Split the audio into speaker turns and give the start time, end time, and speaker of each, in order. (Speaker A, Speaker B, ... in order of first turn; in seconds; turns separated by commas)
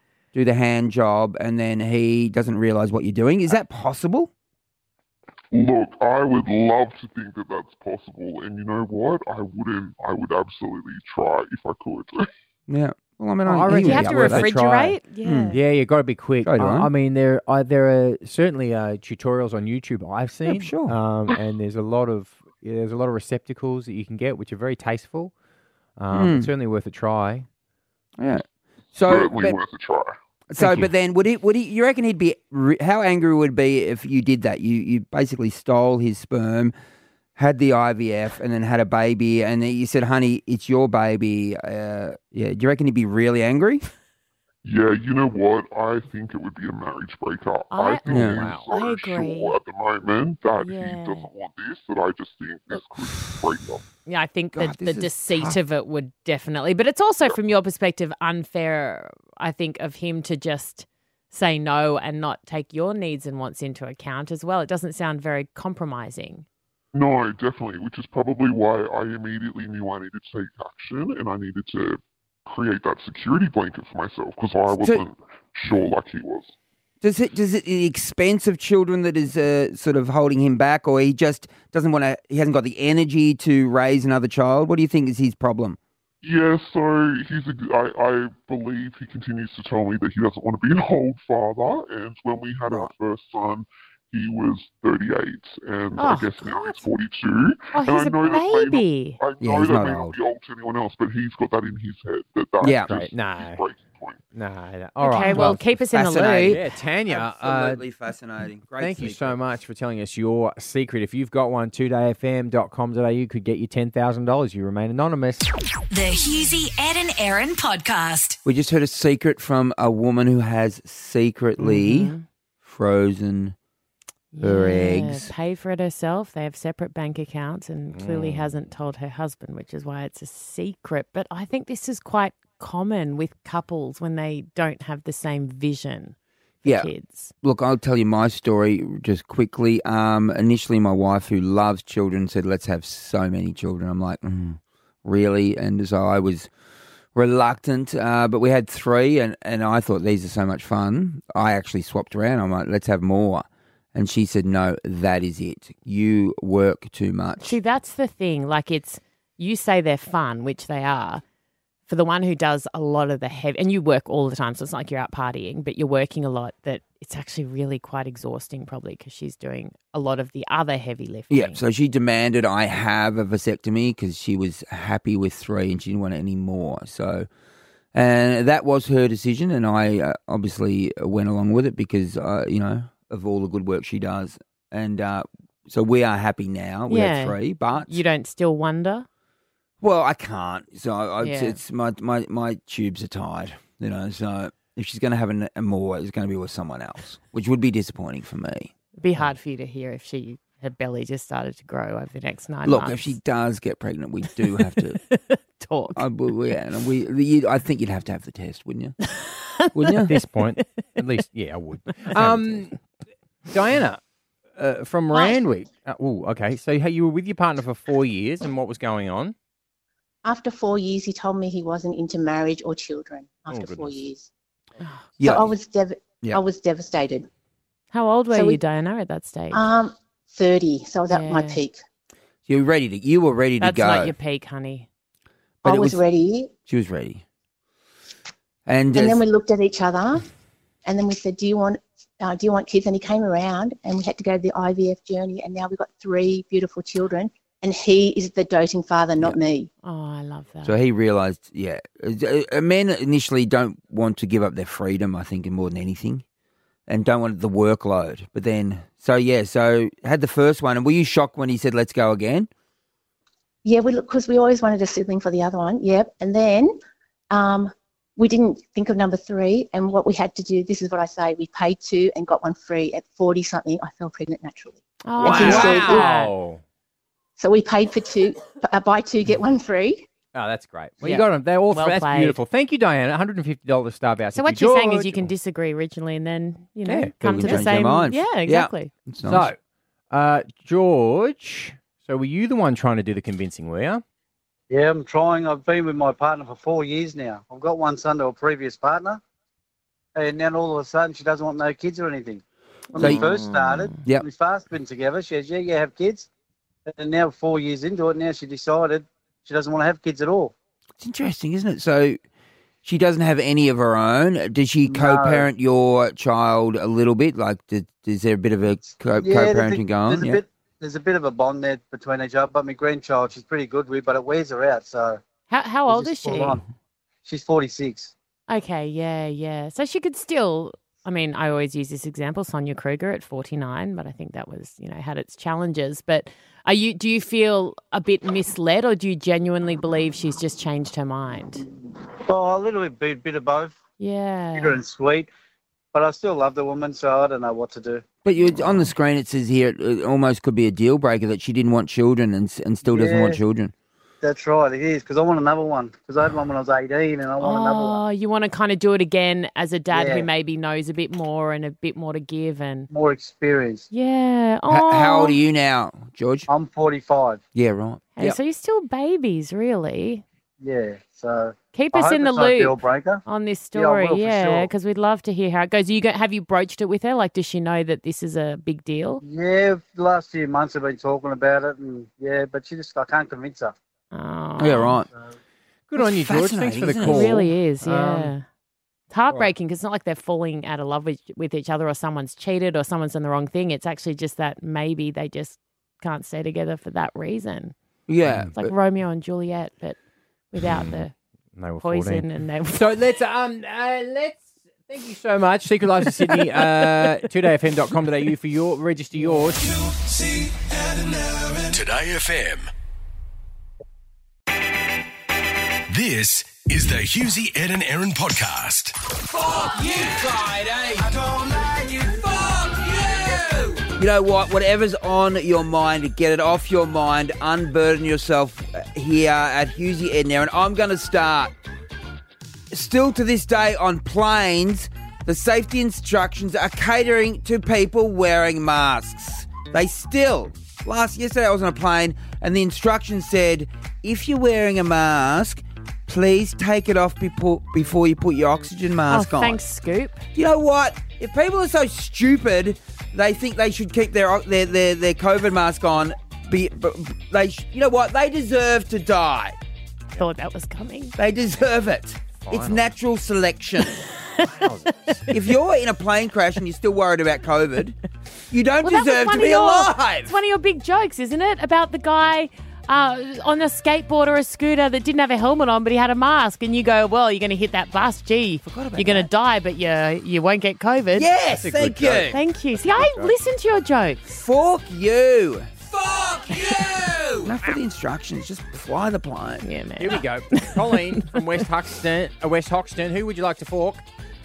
Speaker A: 0.3-4.3, Speaker B: 5.5-12.3, Speaker A: 12.7-14.5, Speaker C: 13.4-15.0, Speaker D: 13.7-15.6, Speaker A: 15.2-15.6, Speaker C: 15.5-25.3, Speaker A: 16.4-16.9, Speaker A: 20.5-20.9, Speaker C: 26.0-27.5, Speaker A: 26.1-26.5, Speaker A: 28.2-29.6, Speaker B: 29.1-30.2, Speaker A: 30.5-36.7, Speaker C: 30.6-30.9, Speaker A: 37.4-43.8, Speaker B: 44.6-53.8, Speaker D: 47.7-49.6, Speaker A: 48.0-48.5, Speaker C: 48.1-48.7, Speaker D: 50.6-51.3, Speaker D: 54.0-66.5, Speaker A: 54.5-55.6, Speaker B: 66.9-76.5, Speaker A: 74.7-75.0, Speaker A: 77.0-85.8, Speaker B: 86.2-104.2, Speaker D: 96.0-96.8, Speaker D: 97.7-99.2, Speaker A: 99.4-100.2, Speaker A: 102.6-102.9, Speaker C: 102.9-103.6, Speaker C: 104.3-107.8, Speaker D: 105.0-106.6, Speaker A: 105.3-109.4, Speaker C: 108.8-115.5, Speaker E: 115.9-118.4, Speaker A: 118.4-123.5, Speaker D: 121.6-122.2, Speaker D: 124.3-137.3, Speaker A: 124.4-125.3, Speaker C: 127.9-128.5, Speaker A: 136.6-136.9, Speaker A: 137.4-146.5, Speaker A: 147.1-157.6, Speaker D: 157.4-161.2, Speaker D: 161.9-171.6, Speaker A: 171.3-177.3, Speaker A: 177.9-188.0, Speaker D: 186.9-189.1, Speaker A: 189.8-198.7, Speaker D: 191.2-191.6, Speaker D: 199.0-203.2, Speaker A: 202.7-205.0, Speaker D: 204.6-206.0, Speaker A: 205.9-208.9, Speaker D: 209.1-210.0, Speaker A: 209.7-210.1, Speaker C: 210.1-212.8, Speaker A: 212.2-212.6, Speaker C: 213.5-214.0, Speaker C: 214.6-219.3, Speaker F: 215.1-215.4, Speaker F: 220.2-224.3, Speaker C: 223.5-224.0, Speaker A: 225.2-225.5, Speaker F: 225.2-227.3, Speaker D: 227.9-229.7, Speaker F: 228.3-228.6, Speaker F: 229.5-231.8, Speaker D: 231.1-231.6, Speaker A: 232.5-234.1, Speaker D: 233.6-234.9, Speaker A: 235.6-236.0, Speaker F: 235.6-236.5, Speaker A: 236.7-237.2, Speaker A: 238.7-239.2, Speaker F: 238.9-240.2, Speaker F: 240.8-249.7, Speaker D: 249.8-250.8, Speaker A: 250.6-256.2, Speaker A: 256.9-262.5, Speaker F: 263.6-266.8, Speaker F: 267.3-276.1, Speaker D: 275.0-276.3, Speaker C: 275.2-276.6, Speaker F: 277.4-280.1, Speaker C: 280.3-285.3, Speaker D: 281.0-282.4, Speaker D: 284.3-288.9, Speaker C: 286.9-287.7, Speaker A: 287.2-289.5, Speaker C: 289.2-289.6, Speaker C: 290.1-294.0, Speaker G: 294.7-299.2, Speaker G: 300.1-302.4, Speaker G: 302.9-306.3, Speaker D: 302.9-304.0, Speaker A: 303.0-303.3, Speaker G: 306.9-310.5, Speaker A: 311.0-312.2, Speaker A: 312.8-320.4, Speaker G: 314.9-315.5, Speaker G: 319.1-325.2, Speaker D: 325.5-326.6, Speaker G: 325.9-326.6, Speaker G: 327.2-328.1, Speaker D: 328.5-341.6, Speaker G: 342.3-343.8, Speaker D: 344.0-344.8, Speaker G: 344.5-345.3, Speaker G: 345.9-348.0, Speaker A: 348.2-353.7, Speaker G: 352.8-353.4, Speaker G: 354.2-358.0, Speaker D: 357.4-362.9, Speaker G: 359.9-360.3, Speaker G: 362.9-363.9, Speaker D: 363.9-365.4, Speaker A: 364.7-366.5, Speaker G: 366.5-367.4, Speaker A: 367.5-368.4, Speaker D: 368.1-370.2, Speaker G: 370.6-373.2, Speaker D: 371.7-379.2, Speaker G: 373.7-374.7, Speaker G: 379.2-383.7, Speaker D: 384.1-385.0, Speaker A: 384.6-385.1, Speaker C: 385.9-388.3, Speaker A: 386.0-387.4, Speaker D: 387.1-388.4, Speaker D: 389.1-397.7, Speaker A: 398.1-398.7, Speaker C: 398.3-398.6, Speaker D: 398.6-400.0, Speaker D: 400.5-401.1, Speaker C: 400.7-401.0, Speaker C: 401.5-409.6, Speaker D: 401.8-402.9, Speaker H: 409.6-411.8, Speaker I: 411.7-412.7, Speaker I: 415.9-418.9, Speaker H: 419.5-420.2, Speaker H: 420.9-423.8, Speaker A: 424.0-431.5, Speaker A: 432.7-449.6, Speaker D: 449.1-450.3, Speaker A: 450.3-459.6, Speaker D: 460.2-461.1, Speaker A: 461.2-464.0, Speaker C: 462.4-462.9, Speaker D: 464.0-464.4, Speaker C: 464.4-465.3, Speaker A: 465.3-468.0, Speaker A: 468.5-470.3, Speaker D: 468.8-481.3, Speaker A: 478.6-479.3, Speaker A: 481.1-482.4, Speaker C: 481.5-483.3, Speaker D: 482.3-484.2, Speaker A: 484.2-485.7, Speaker C: 486.3-487.4, Speaker D: 486.6-486.8, Speaker A: 487.4-489.6, Speaker D: 489.6-491.4, Speaker C: 490.0-494.0